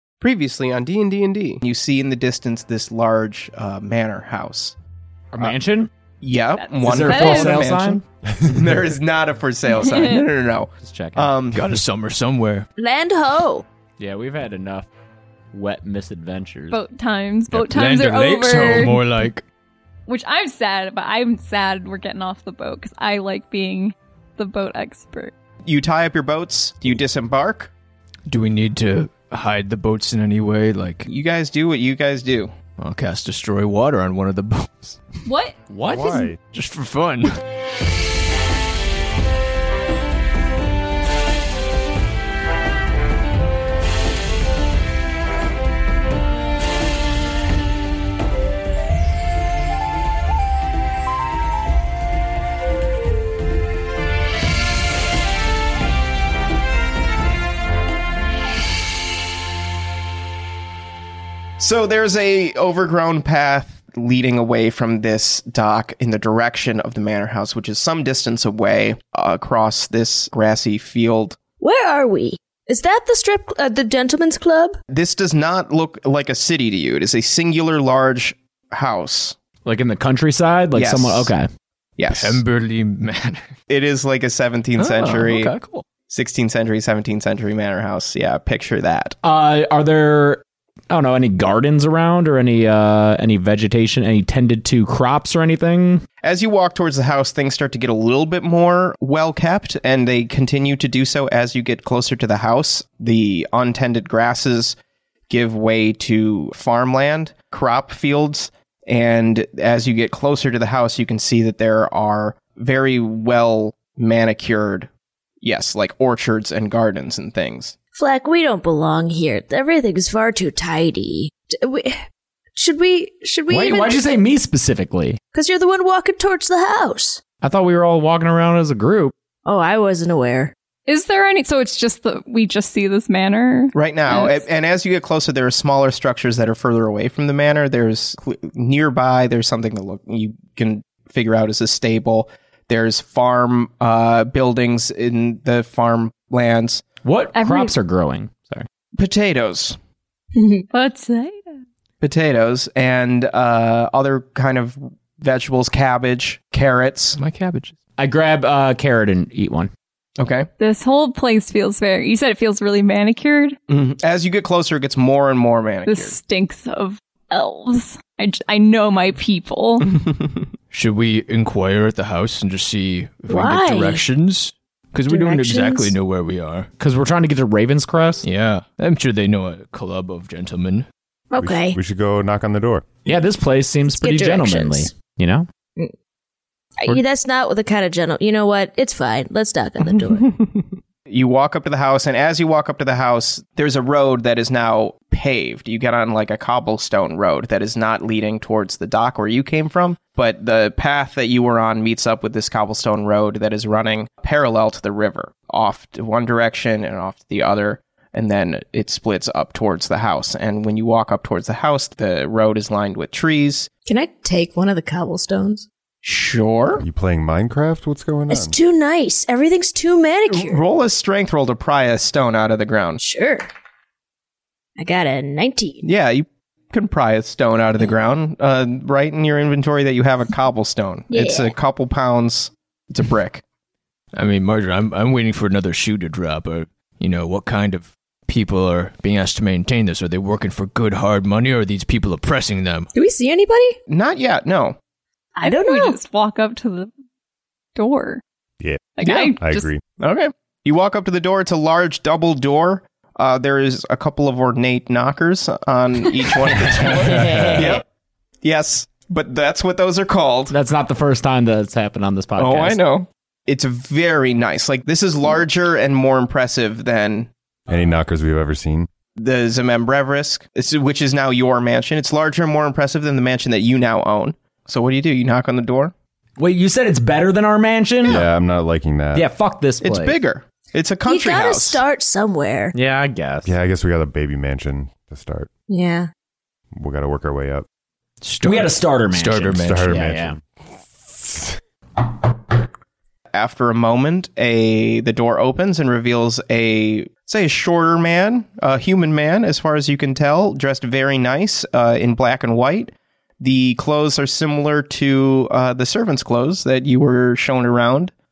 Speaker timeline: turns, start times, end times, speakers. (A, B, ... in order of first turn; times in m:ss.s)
0:00.2-0:04.8 A
0:05.3-0:05.9 B
0:06.2-0:11.6 A
0:06.6-0:07.6 C
0:06.8-0:08.0 B
0:08.3-0:08.9 D
0:09.7-0:10.2 C
0:10.8-0:11.3 B
0:11.5-0:12.7 E
0:12.8-0:13.6 F
0:14.0-0:14.9 B
0:15.5-0:16.8 B
0:16.7-0:19.0 C
0:17.5-0:19.4 E
0:20.1-0:25.3 C
0:25.6-0:27.7 A
0:28.3-0:31.1 E
0:31.0-0:32.5 A
0:32.8-0:35.0 E
0:35.2-0:36.3 C
0:35.8-0:36.4 D
0:36.4-0:37.3 E
1:01.6-1:11.4 A
1:11.6-1:14.8 F
1:14.9-1:19.4 A
1:19.6-1:21.5 B
1:20.7-1:21.3 A
1:22.0-1:22.4 A
1:22.1-1:23.5 E
1:23.7-1:25.5 A
1:24.8-1:25.8 E
1:26.1-1:29.1 A
1:29.2-1:36.0 B
1:36.2-1:44.8 A
1:45.3-1:54.9 A
1:55.4-1:57.7 A
1:57.9-2:02.0 F
2:02.6-2:04.0 F
2:03.5-2:05.2 B
2:05.3-2:07.2 F
2:07.4-2:09.1 B
2:09.4-2:10.5 F
2:10.9-2:14.3 C
2:13.7-2:26.8 A
2:27.0-2:28.6 B
2:27.3-2:27.7 C
2:29.0-2:29.8 A
2:30.4-2:30.6 F
2:30.7-2:31.4 C
2:32.0-2:37.2 A
2:37.2-2:37.7 E
2:38.0-2:39.7 B
2:40.2-2:40.5 A
2:40.6-2:43.6 C
2:43.7-2:46.2 A
2:45.8-2:49.9 C
2:49.9-2:50.4 A
2:50.7-2:56.7 E
2:53.3-2:54.0 F
2:55.1-2:55.9 F
2:56.8-2:58.2 B
2:58.2-3:00.9 E
3:01.3-3:01.8 F
3:01.4-3:02.8 D
3:03.0-3:05.5 B
3:03.9-3:04.9 F
3:06.8-3:10.3 F
3:11.1-3:33.7 A
3:33.8-3:35.6 F
3:36.0-3:36.8 A
3:36.8-3:38.6 D
3:38.3-3:40.6 F
3:40.3-3:43.0 A
3:43.0-3:43.5 F
3:44.8-3:45.8 F
3:45.8-3:53.4 A
3:51.1-3:51.5 F
3:54.1-4:02.9 E
4:02.9-4:03.8 F
4:03.9-4:04.8 A
4:05.4-4:06.0 F
4:05.4-4:06.9 C
4:07.7-4:08.2 C
4:08.6-4:09.8 D
4:09.0-4:09.7 C
4:09.0-4:09.3 A
4:10.0-4:17.8 A
4:16.8-4:17.8 B
4:16.8-4:17.8 D
4:18.4-4:20.5 A
4:20.5-4:22.8 B
4:22.4-4:27.3 A
4:27.7-4:28.9 D
4:29.2-4:35.9 A
4:36.4-4:38.2 B
4:38.0-4:39.3 D
4:39.1-4:40.1 B
4:39.8-4:41.8 A
4:41.0-4:42.7 F
4:42.7-4:43.5 B
4:43.4-4:45.5 D
4:45.7-4:46.1 F
4:46.7-4:47.6 D
4:48.2-4:49.9 E
4:48.4-4:50.4 B
4:49.5-4:51.6 D
4:53.3-5:08.1 A